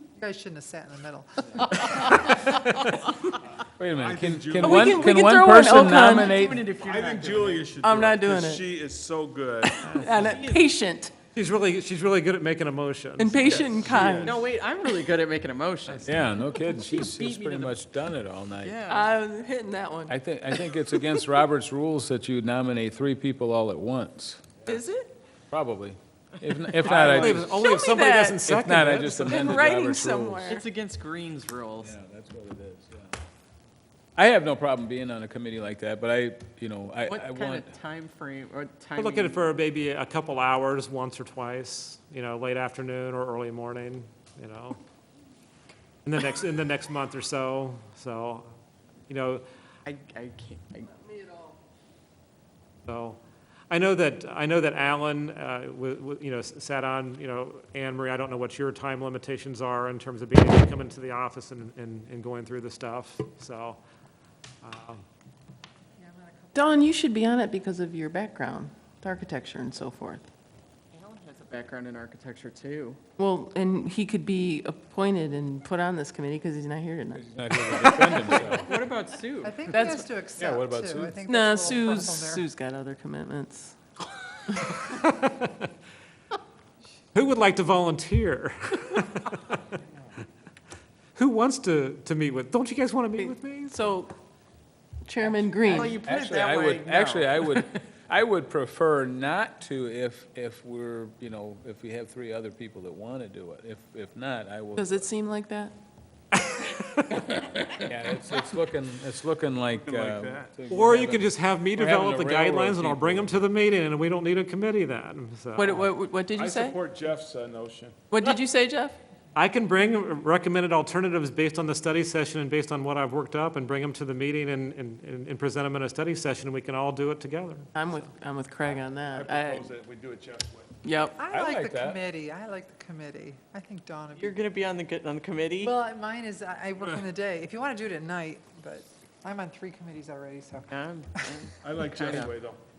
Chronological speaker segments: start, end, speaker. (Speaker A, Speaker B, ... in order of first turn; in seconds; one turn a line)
Speaker A: 0.2-2.2
Speaker B: 1.7-3.1
Speaker C: 2.5-3.0
Speaker D: 3.8-6.6
Speaker E: 4.0-5.1
Speaker B: 4.6-6.6
Speaker F: 6.1-7.8
Speaker E: 6.7-9.9
Speaker B: 7.8-8.7
Speaker B: 9.6-11.2
Speaker C: 9.8-10.2
Speaker F: 10.1-10.7
Speaker C: 11.3-13.6
Speaker B: 13.2-14.4
Speaker F: 13.4-17.8
Speaker E: 13.4-14.4
Speaker D: 16.0-18.9
Speaker F: 18.6-19.1
Speaker B: 18.9-20.7
Speaker D: 20.1-24.8
Speaker F: 24.6-25.1
Speaker D: 25.5-27.5
Speaker F: 26.4-27.3
Speaker C: 26.8-29.7
Speaker E: 27.0-27.4
Speaker B: 27.4-28.5
Speaker D: 28.4-30.6
Speaker B: 29.3-30.6
Speaker F: 30.5-31.9
Speaker D: 31.8-33.1
Speaker D: 34.2-37.8
Speaker F: 37.1-39.5
Speaker C: 39.0-44.8
Speaker C: 46.0-48.5
Speaker C: 49.1-49.4
Speaker F: 49.9-51.0
Speaker C: 52.9-53.2
Speaker C: 53.7-63.8
Speaker C: 64.6-65.0
Speaker A: 66.0-66.9
Speaker B: 66.5-70.3
Speaker F: 70.9-73.0
Speaker B: 73.2-78.5
Speaker D: 77.2-78.8
Speaker F: 78.5-80.0
Speaker A: 79.4-82.5
Speaker B: 79.7-80.0
Speaker D: 80.4-81.2
Speaker B: 81.3-83.8
Speaker C: 84.5-85.7
Speaker C: 87.1-89.6
Speaker C: 91.2-93.9
Speaker B: 93.2-94.1
Speaker B: 95.1-96.0
Speaker F: 95.2-97.7
Speaker D: 96.0-105.0
Speaker B: 104.8-105.7
Speaker C: 106.4-107.5
Speaker D: 107.8-113.4
Speaker E: 109.7-110.5
Speaker C: 110.7-115.8
Speaker B: 115.6-116.8
Speaker E: 116.3-118.0
Speaker B: 118.1-119.0
Speaker C: 119.3-127.7
Speaker B: 127.8-129.7
Speaker E: 128.7-130.7
Speaker B: 130.8-131.2
Speaker A: 131.2-134.4
Speaker D: 131.3-132.0
Speaker F: 134.2-135.7
Speaker A: 135.6-141.5
Speaker F: 140.7-142.4
Speaker E: 141.6-142.6